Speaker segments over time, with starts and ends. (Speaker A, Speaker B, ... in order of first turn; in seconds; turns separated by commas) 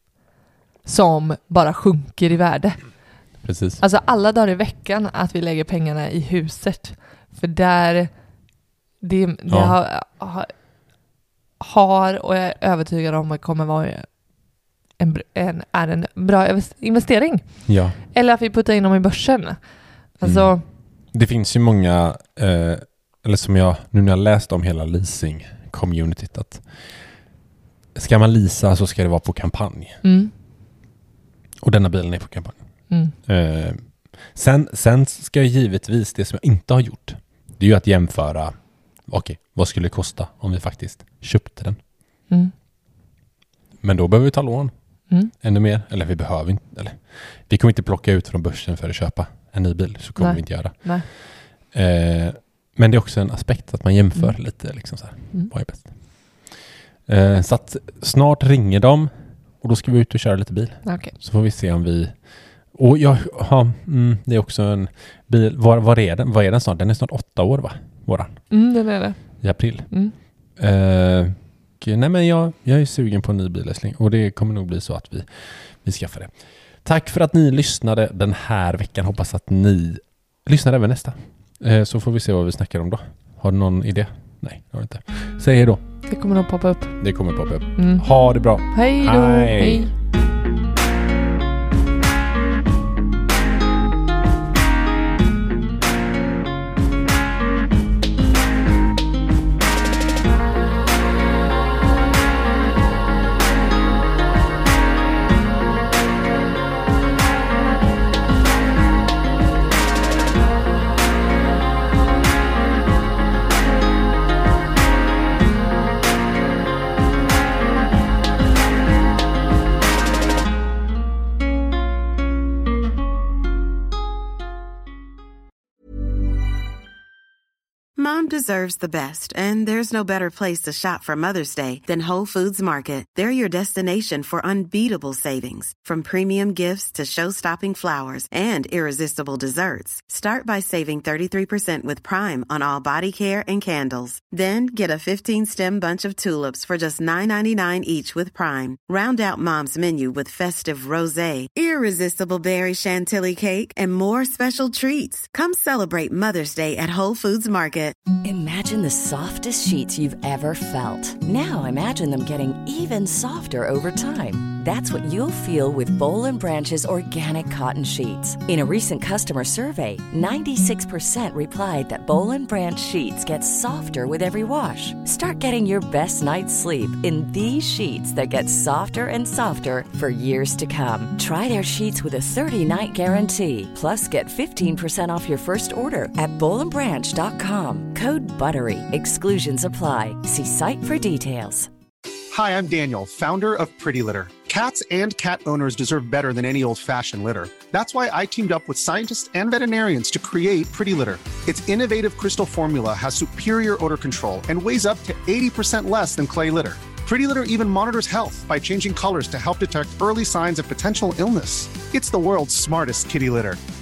Speaker A: 0.8-3.0, Speaker B: 3.4-3.8, Speaker A: 3.8-8.1, Speaker A: 9.0-10.5, Speaker B: 9.5-9.7, Speaker A: 11.6-14.1, Speaker A: 15.0-19.6, Speaker B: 17.7-18.0, Speaker A: 20.1-20.6, Speaker B: 20.2-20.5, Speaker B: 21.1-26.9, Speaker B: 27.9-30.0, Speaker A: 30.0-30.3, Speaker B: 31.6-32.6, Speaker A: 32.9-33.1, Speaker B: 33.2-41.8, Speaker B: 43.8-44.7, Speaker B: 45.2-68.4, Speaker A: 50.1-51.0, Speaker A: 54.1-54.6, Speaker A: 60.8-61.1, Speaker A: 68.5-70.1, Speaker B: 69.4-69.9, Speaker B: 70.5-85.8, Speaker A: 86.1-87.0, Speaker B: 87.0-89.9, Speaker A: 87.8-88.0, Speaker A: 88.7-89.9, Speaker C: 128.0-157.9, Speaker D: 158.2-191.7, Speaker E: 192.3-213.6